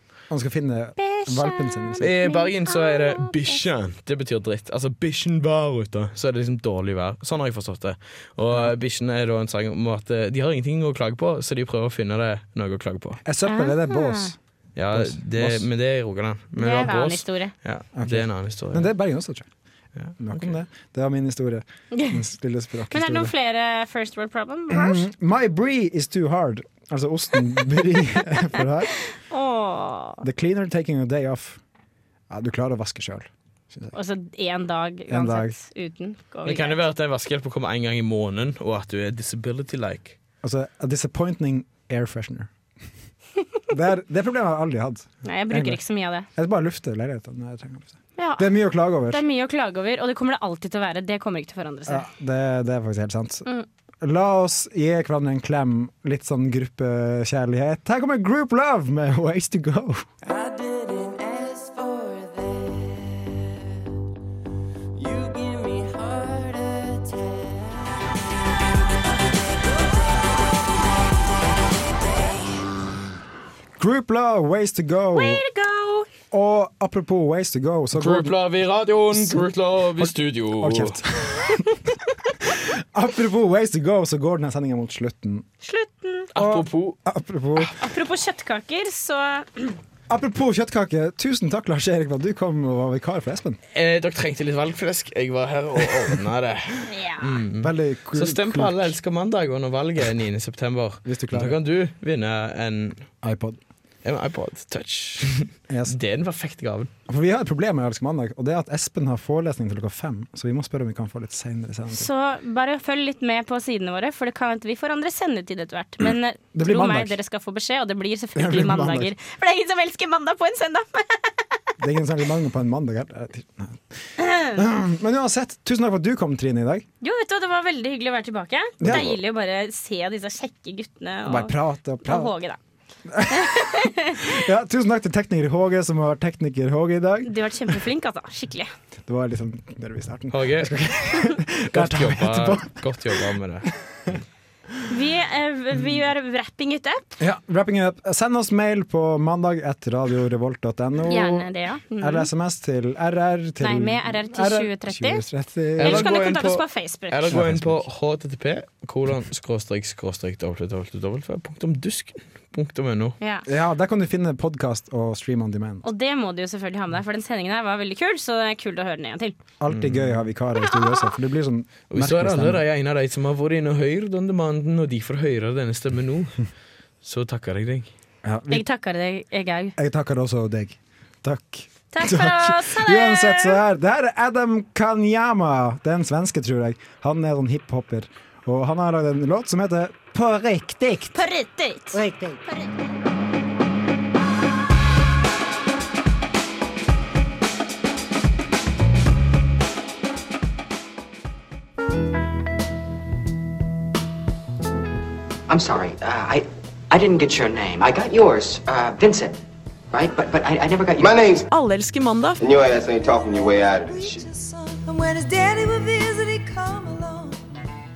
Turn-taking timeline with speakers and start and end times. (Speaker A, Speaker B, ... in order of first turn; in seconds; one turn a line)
Speaker A: 0.3-2.2
Speaker B: 1.0-3.6
Speaker C: 2.0-13.2
Speaker A: 13.2-14.4
Speaker B: 13.5-14.3
Speaker C: 14.8-18.9
Speaker A: 14.9-15.7
Speaker B: 16.6-17.5
Speaker A: 17.9-19.5
Speaker C: 20.0-20.5
Speaker A: 20.2-23.3
Speaker B: 21.9-22.2
Speaker B: 22.9-25.0
Speaker A: 24.7-28.9
Speaker B: 29.1-30.2
Speaker A: 30.2-31.6
Speaker A: 32.3-33.9
Speaker B: 33.9-36.8
Speaker A: 35.1-35.6
Speaker C: 36.5-40.2
Speaker A: 40.4-42.5
Speaker A: 43.7-45.8
Speaker B: 45.2-46.3
Speaker A: 46.4-49.2
Speaker B: 48.2-52.1
Speaker A: 51.9-53.5
Speaker A: 54.0-60.1
Speaker D: 60.2-63.8
Speaker D: 65.0-68.3
Speaker A: 73.8-75.4
Speaker B: 75.1-76.1
Speaker A: 76.3-78.4
Speaker C: 77.9-81.0
Speaker A: 79.1-81.9
Speaker A: 82.4-85.5
Speaker B: 85.6-86.3
Speaker C: 86.3-87.0
Speaker A: 86.4-87.8
Speaker B: 87.7-89.8
Speaker A: 90.1-93.6
Speaker C: 93.7-103.1
Speaker B: 96.9-97.4
Speaker A: 97.6-99.0
Speaker A: 101.0-101.6
Speaker A: 103.2-103.6
Speaker C: 104.0-106.9
Speaker A: 105.7-106.0
Speaker A: 107.1-112.1
Speaker B: 111.9-121.5
Speaker A: 116.5-117.2
Speaker A: 118.3-119.1
Speaker A: 121.8-126.9
Speaker B: 124.2-124.5
Speaker B: 127.0-132.6
Speaker A: 128.8-129.2
Speaker A: 131.3-132.3
Speaker A: 133.1-137.8
Speaker B: 133.3-134.4
Speaker B: 137.2-138.7
Speaker A: 139.1-143.1
Speaker C: 140.3-140.8
Speaker C: 141.7-143.7
Speaker A: 143.9-144.2
Speaker B: 144.9-147.2
Speaker A: 147.2-156.1
Speaker B: 151.1-152.3
Speaker B: 153.6-155.2
Speaker C: 155.8-163.2
Speaker B: 155.8-157.3
Speaker A: 157.3-157.9
Speaker B: 163.2-163.5
Speaker A: 163.5-165.8
Speaker B: 165.8-169.3
Speaker A: 169.6-172.6
Speaker C: 169.7-170.2
Speaker B: 170.6-171.1
Speaker C: 171.9-176.5
Speaker C: 177.0-177.9
Speaker A: 178.2-178.7
Speaker B: 178.5-179.8
Speaker A: 179.8-191.2
Speaker B: 181.9-183.6
Speaker B: 191.1-192.7
Speaker A: 191.9-192.3
Speaker E: 205.5-209.4
Speaker E: 209.9-211.2
Speaker F: 211.0-211.5
Speaker C: 211.5-212.4
Speaker F: 212.4-214.3
Speaker D: 213.8-217.4